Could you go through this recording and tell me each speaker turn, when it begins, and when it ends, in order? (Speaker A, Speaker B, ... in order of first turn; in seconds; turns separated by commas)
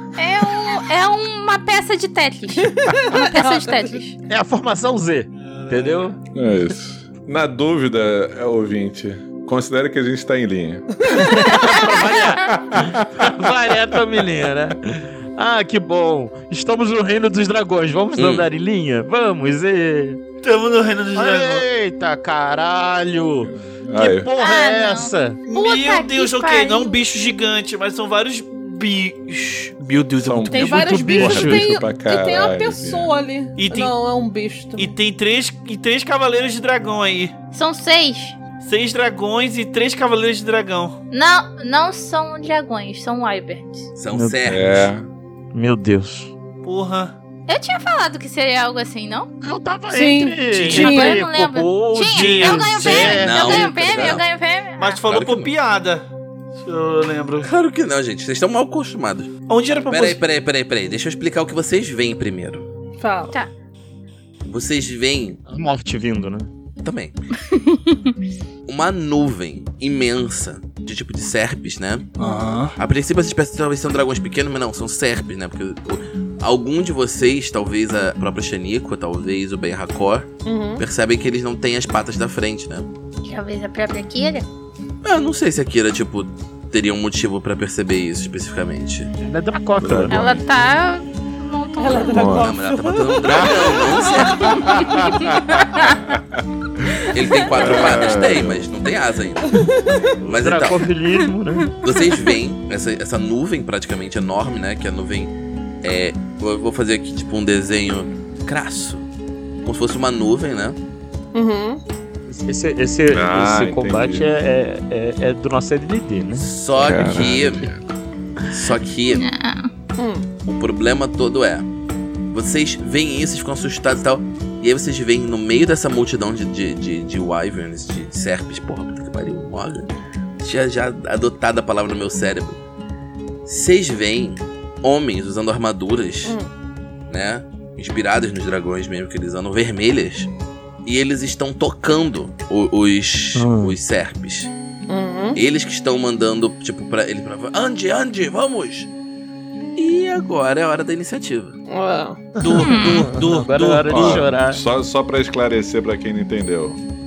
Speaker A: 0.2-4.2, Speaker B: 2.6-4.0, Speaker C: 4.3-6.2, Speaker D: 5.3-6.1, Speaker E: 6.3-11.5, Speaker B: 11.0-12.0, Speaker C: 11.1-20.2, Speaker E: 12.4-13.5, Speaker F: 18.1-18.5, Speaker D: 20.4-21.6, Speaker C: 21.1-25.4, Speaker E: 23.4-24.3, Speaker A: 24.4-26.9, Speaker D: 25.5-30.9, Speaker E: 30.2-33.1, Speaker B: 30.5-34.9, Speaker C: 30.6-31.8, Speaker D: 33.6-34.0, Speaker D: 34.8-37.3, Speaker A: 37.5-38.4, Speaker D: 38.6-41.0, Speaker A: 41.1-43.9, Speaker F: 44.0-44.9, Speaker C: 44.1-44.4, Speaker E: 44.5-45.0, Speaker C: 45.5-46.3, Speaker D: 46.6-47.1, Speaker A: 47.5-49.3, Speaker C: 49.4-54.1, Speaker B: 49.9-51.2, Speaker A: 50.7-55.0, Speaker D: 52.1-53.2, Speaker F: 53.0-54.2, Speaker D: 54.8-57.5, Speaker F: 55.1-55.5, Speaker F: 57.4-59.3, Speaker D: 59.5-60.2, Speaker F: 59.9-62.7, Speaker B: 63.0-63.3, Speaker F: 64.4-65.4, Speaker C: 65.5-66.5, Speaker F: 66.8-67.2, Speaker A: 67.5-68.1, Speaker F: 68.7-72.1, Speaker D: 72.2-72.8, Speaker F: 72.8-82.9, Speaker B: 80.4-80.8, Speaker A: 83.2-84.5, Speaker F: 85.0-89.1, Speaker C: 89.2-90.3, Speaker E: 89.8-90.4, Speaker A: 90.1-92.4, Speaker B: 91.8-95.1, Speaker E: 92.1-92.5, Speaker F: 92.2-94.8, Speaker E: 93.3-93.6, Speaker A: 93.8-96.0, Speaker E: 94.7-98.7, Speaker F: 97.1-99.6, Speaker C: 97.7-97.9, Speaker B: 99.5-100.1, Speaker C: 100.2-101.7, Speaker F: 100.2-100.9, Speaker F: 101.8-109.0, Speaker F: 109.6-110.8, Speaker B: 111.3-111.8, Speaker C: 112.2-116.5, Speaker E: 113.1-114.3, Speaker F: 116.3-117.7, Speaker E: 116.7-117.8, Speaker F: 118.5-119.2, Speaker A: 119.1-119.7, Speaker B: 120.0-120.2, Speaker F: 120.5-121.7, Speaker F: 122.3-129.9, Speaker F: 130.4-132.6, Speaker F: 133.4-136.3, Speaker F: 137.1-140.3, Speaker F: 140.8-144.5, Speaker C: 143.3-143.8, Speaker B: 144.9-145.4, Speaker F: 145.3-148.9, Speaker F: 149.8-151.6, Speaker B: 151.7-152.4, Speaker D: 152.4-154.2, Speaker C: 152.4-154.6, Speaker A: 152.6-153.1, Speaker E: 153.9-156.8